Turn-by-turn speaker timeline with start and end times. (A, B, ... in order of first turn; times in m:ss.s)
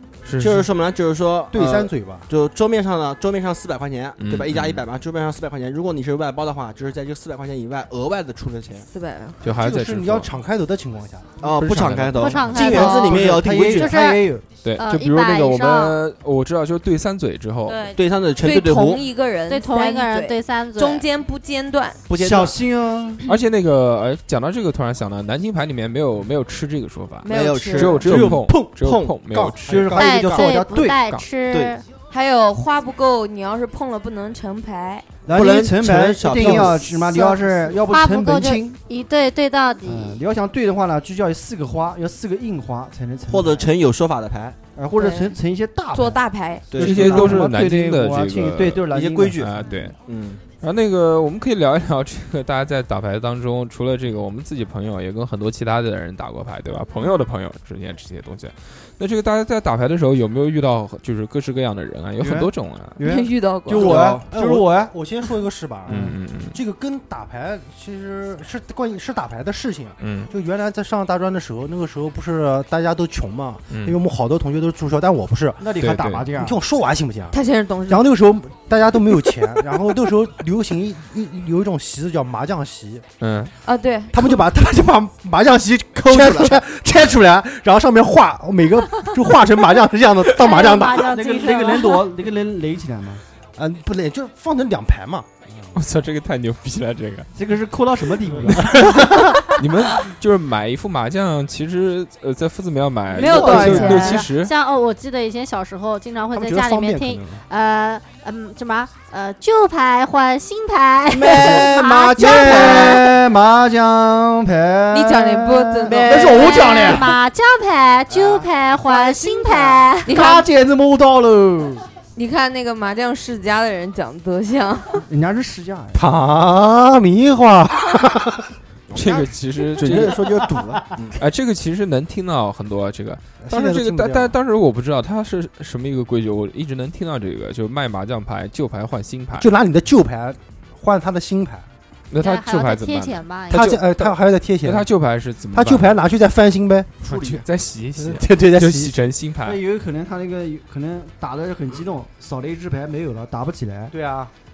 0:00.2-0:00.7 A
0:00.4-0:08.9 B
0:01.5-0:02.3 C
0:04.2-0:04.8 A
0:08.9-0:09.4 D
0:09.4-0:10.3 A
0:09.4-0:11.5 C
0:11.4-0:13.9 B
0:11.6-0:12.4 A
0:12.1-0:14.2 E
0:12.6-0:14.4 F
0:14.6-0:17.9 A
0:14.8-0:16.0 E
0:17.7-0:22.0 D
0:18.0-0:19.0 B
0:19.5-0:21.0 E
0:22.1-0:22.6 B
0:22.2-0:23.2 F
0:23.3-0:29.8 A
0:27.2-0:28.0 D
0:27.3-0:29.2 B
0:28.0-0:28.6 C
0:29.3-0:30.4 C
0:29.6-0:31.0 F
0:29.7-0:30.5 B
0:29.9-0:31.8 E
0:30.9-0:31.2 A
0:31.5-0:31.8 B
0:32.1-0:35.1 D
0:35.2-0:38.8 F
0:35.3-0:37.1 B
0:36.4-0:36.7 C
0:37.8-0:40.2 E
0:39.8-0:43.7 F
0:43.3-0:44.6 B
0:44.7-0:46.2 F
0:45.0-0:45.3 D
0:45.9-0:46.8 D
0:46.7-0:47.4 B
0:46.8-0:49.7 F
0:46.8-0:50.0 A
0:48.9-0:50.4 B
0:50.6-1:03.0 A
1:02.2-1:04.9 F
1:03.0-1:04.0 D
1:03.8-1:04.3 B
1:03.8-1:23.0 C
1:05.9-1:06.6 A
1:05.9-1:06.2 F
1:10.0-1:10.3 A
1:13.7-1:14.0 A
1:15.6-1:16.6 F
1:15.8-1:16.2 A
1:17.3-1:18.1 D
1:23.2-1:23.5 A
1:23.6-1:24.4 D
1:24.1-1:31.1 C
1:26.1-1:26.6 B
1:30.3-1:32.1 E
1:31.0-1:33.2 F
1:33.6-1:35.3 C
1:35.7-1:37.3 A
1:37.3-1:39.2 F
1:38.4-1:38.8 A
1:38.8-1:39.1 C
1:39.5-1:44.5 A
1:43.1-1:44.2 D
1:43.1-1:44.0 C
1:43.3-1:44.1 F
1:44.3-1:53.1 E
1:46.3-1:47.4 C
1:51.1-1:53.1 B
1:52.2-1:57.1 F
1:54.9-1:56.9 D
1:55.9-1:56.6 B
1:56.3-2:00.2 E
1:58.1-1:58.5 B
1:59.0-1:59.8 B
2:00.0-2:00.4 D
2:00.1-2:01.8 F
2:02.1-2:05.0 D
2:05.0-2:06.0 F
2:05.9-2:08.5 C
2:08.9-2:11.2 B
2:08.9-2:10.2 A
2:09.8-2:10.4 C
2:11.2-2:19.5 A
2:13.4-2:14.3 C
2:19.4-2:21.6 C
2:22.1-2:26.0 A
2:22.2-2:23.6 E
2:23.5-2:24.9 C
2:25.5-2:27.4 C
2:27.0-2:29.6 A
2:28.0-2:29.0 C
2:29.4-2:33.9 F
2:33.9-2:34.3 C